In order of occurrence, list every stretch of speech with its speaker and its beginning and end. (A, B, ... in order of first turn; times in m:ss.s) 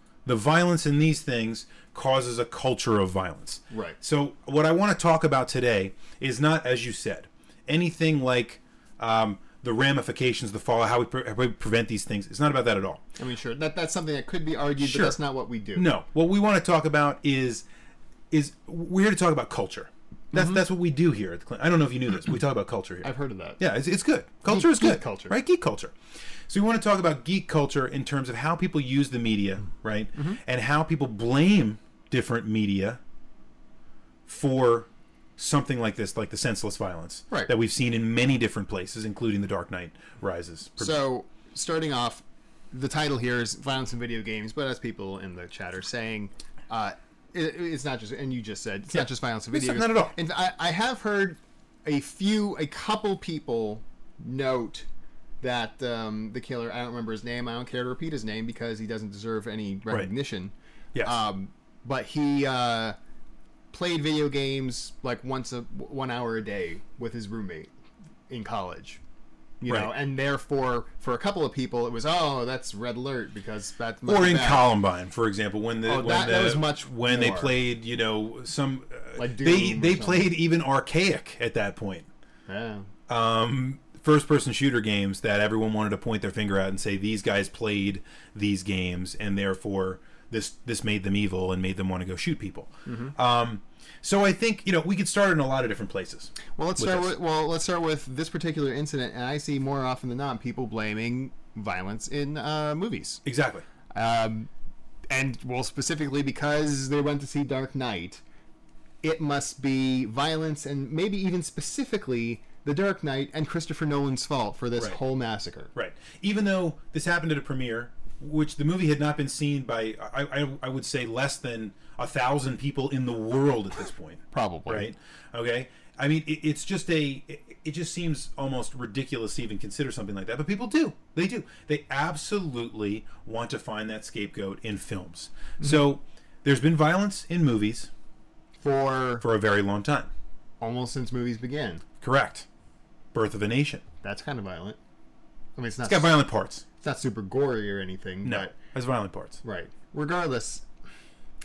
0:00.2-0:13.0 A
0:03.7-0:04.0 B
0:13.2-0:15.9 B
0:14.8-0:15.2 A
0:15.8-0:17.6 A
0:18.3-0:25.9 A
0:20.3-0:20.6 B
0:23.0-0:23.6 B
0:24.5-0:25.4 B
0:26.5-0:33.0 A
0:30.1-0:30.4 B
0:34.3-0:41.0 A
0:40.8-0:54.9 B
0:48.9-0:50.2 A
0:55.4-1:03.0 B
1:03.7-1:07.7 B
1:08.3-1:09.0 B
1:09.6-1:14.7 B
1:14.0-1:22.1 A
1:15.8-1:17.5 B
1:19.2-1:20.3 B
1:22.5-1:22.9 B
1:23.1-1:37.1 A
1:32.8-1:33.1 B
1:36.6-1:43.2 B
1:43.2-1:43.6 A
1:43.9-1:44.5 B
1:45.1-1:48.2 B
1:49.0-1:55.7 B
1:55.7-2:17.9 A
2:04.3-2:04.9 B
2:18.6-2:19.2 B
2:19.2-2:20.1 A
2:20.6-2:21.8 B
2:22.0-2:22.4 A
2:23.1-2:23.8 A
2:24.0-2:24.8 B
2:25.6-2:26.2 B
2:25.8-2:26.6 A
2:26.8-2:28.5 B
2:28.2-2:29.4 A
2:29.4-2:30.6 B